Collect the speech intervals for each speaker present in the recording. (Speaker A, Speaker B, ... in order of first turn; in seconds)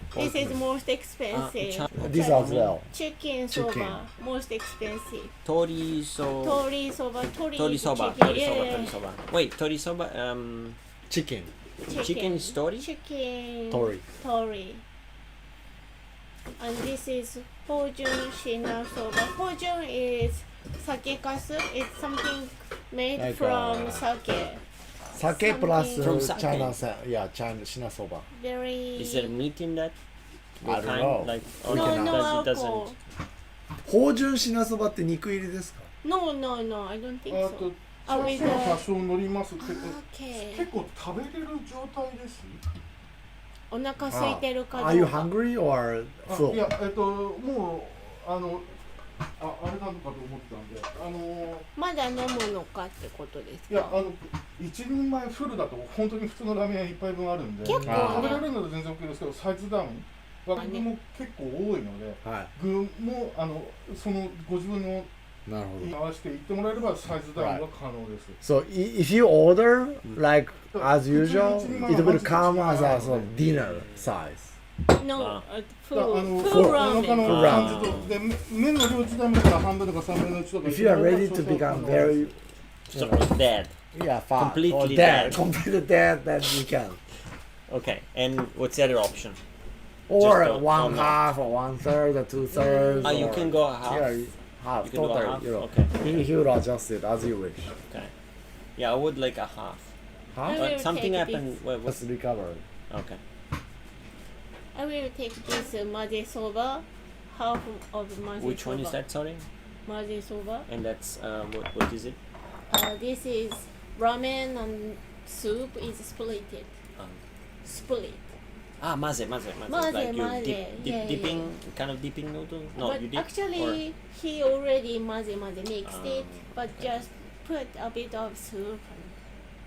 Speaker A: 0.1-0.6, 2.0-2.9, 3.5-4.0, 11.1-11.5, 13.7-14.0, 23.2-24.0, 25.1-28.3, 30.6-32.3, 33.9-35.9, 44.1-46.7, 57.8-58.4, 62.2-62.5, 65.5-65.9, 67.3-67.6, 68.4-74.5, 76.4-77.8, 80.6-82.3, 82.9-83.3, 83.9-87.0, 90.1-97.7, 100.3-100.7, 101.9-102.6
Speaker B: 0.1-5.3, 6.4-9.0, 11.8-14.8, 16.6-24.6, 25.1-26.6, 28.3-29.4, 31.6-33.0, 36.0-38.9, 39.6-40.7, 43.7-45.3, 51.8-53.9, 57.6-58.5, 60.6-60.9, 74.9-77.4, 92.5-93.4, 100.5-101.6, 104.7-109.0, 109.8-110.7, 112.7-116.7, 117.6-118.3, 119.7-121.5, 122.8-129.1
Speaker C: 1.3-2.7, 5.4-6.6, 7.5-10.8, 12.0-12.9, 26.0-26.8, 28.9-29.9, 30.6-33.0, 73.5-73.9, 75.2-75.4, 77.2-78.2, 82.9-83.7, 84.4-85.5, 87.7-89.4, 90.2-91.2, 93.0-94.2, 94.8-96.3, 97.9-98.1, 98.8-99.9, 100.5-102.0, 102.9-103.2, 108.4-109.5, 110.7-112.2, 117.0-117.2, 118.8-123.8, 125.8-126.9
Speaker D: 37.3-42.6, 46.2-48.8, 49.4-51.7, 53.7-65.1, 65.8-68.4, 70.7-73.3, 75.9-82.3